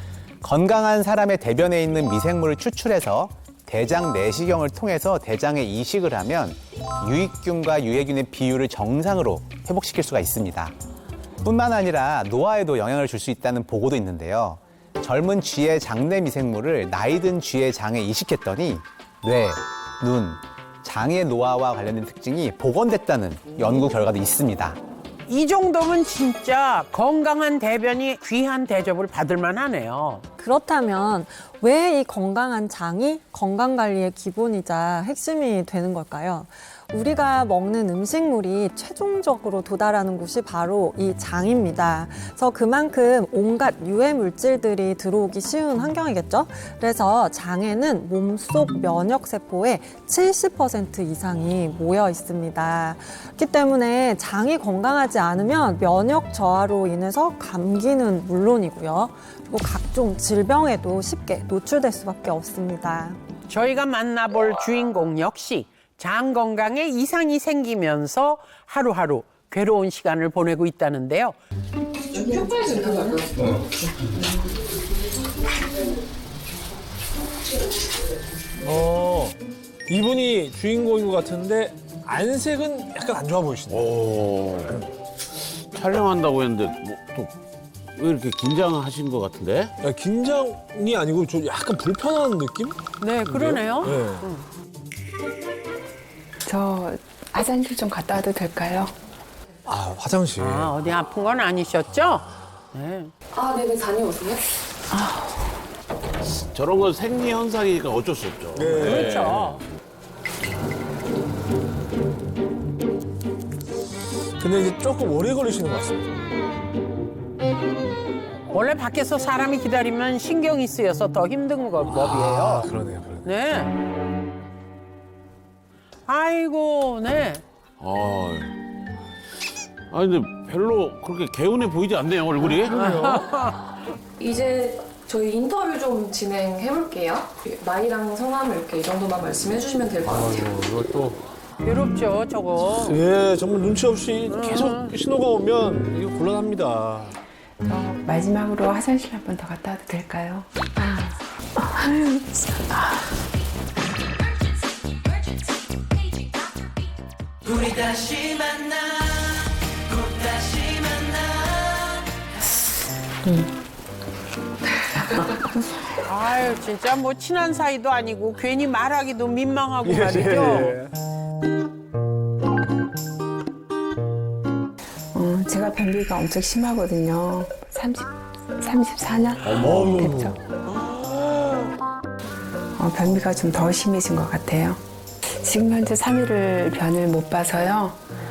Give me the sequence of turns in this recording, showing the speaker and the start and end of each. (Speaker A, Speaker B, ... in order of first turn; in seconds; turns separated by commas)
Speaker A: 0.4-10.7, Speaker A: 11.4-24.8, Speaker B: 25.3-30.2, Speaker C: 30.4-63.2, Speaker B: 63.5-71.4, Speaker D: 72.1-73.6, Speaker E: 78.6-79.3, Speaker E: 79.9-83.8, Speaker F: 83.7-84.8, Speaker F: 85.7-87.3, Speaker F: 88.0-89.7, Speaker E: 89.8-94.2, Speaker B: 93.0-94.5, Speaker G: 96.5-98.9, Speaker E: 99.7-100.7, Speaker B: 100.4-103.1, Speaker D: 103.3-104.4, Speaker G: 104.9-105.6, Speaker F: 106.3-109.2, Speaker E: 108.6-109.4, Speaker B: 108.8-109.6, Speaker E: 114.4-116.2, Speaker B: 118.5-122.7, Speaker E: 121.9-123.3, Speaker B: 123.2-123.7, Speaker B: 126.1-127.4, Speaker F: 127.8-128.5, Speaker F: 129.9-132.9, Speaker E: 132.7-133.2, Speaker B: 132.8-133.6, Speaker D: 134.2-140.6, Speaker E: 140.1-141.2, Speaker B: 141.6-143.0, Speaker E: 142.8-147.2, Speaker B: 144.3-144.9, Speaker G: 147.7-153.0, Speaker G: 163.2-163.5, Speaker G: 165.0-165.5, Speaker B: 166.1-170.8, Speaker E: 169.8-170.9, Speaker G: 175.1-180.4, Speaker F: 179.4-180.4, Speaker G: 182.8-188.0